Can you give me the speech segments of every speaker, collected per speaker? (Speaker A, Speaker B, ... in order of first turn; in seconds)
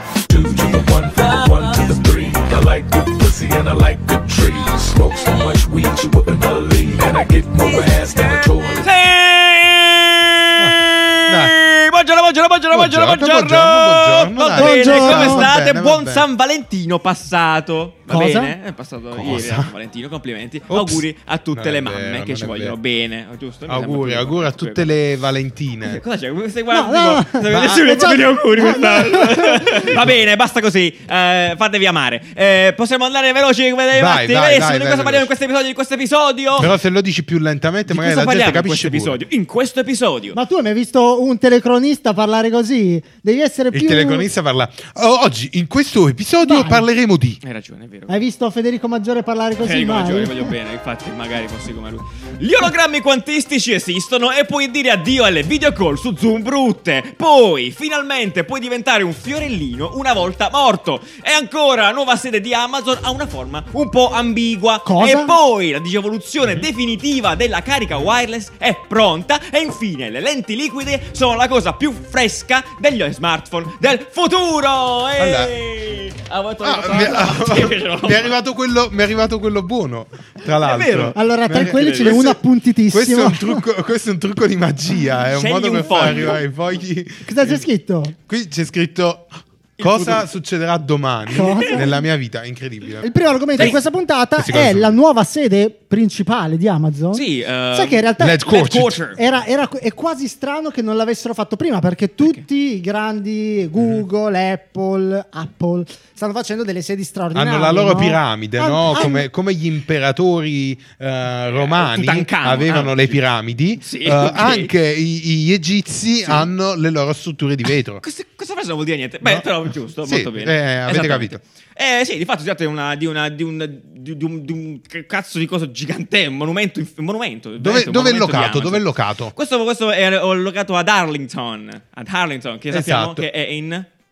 Speaker A: 0.3-8.8
Speaker B: 1.2-1.8, 7.6-24.9, 25.8-36.7, 37.9-40.4, 47.4-48.2, 49.6-78.3, 80.4-82.3, 85.3-86.4, 89.8-90.3, 91.4-91.8, 97.1-99.2, 111.4-113.2, 113.8-114.7, 116.2-116.5, 118.0-133.8
Speaker C: 10.6-11.5, 12.7-16.2, 19.1-19.7, 20.7-22.8, 23.7-26.0, 27.5-28.0, 33.9-35.3, 36.6-39.2, 43.7-47.4, 75.2-75.5, 76.6-82.4, 82.9-87.6, 88.3-93.8, 94.4-94.9, 98.2-99.0, 103.8-104.0, 107.3-118.0, 119.2-119.5, 120.0-121.4, 127.6-129.3, 132.7-133.3
Speaker D: 14.5-15.5, 18.1-18.5, 26.7-29.9, 40.3-44.2, 46.4-46.8, 48.1-50.5, 64.8-65.3, 81.1-83.6, 87.2-88.2, 91.3-92.0, 93.0-98.5, 99.1-109.2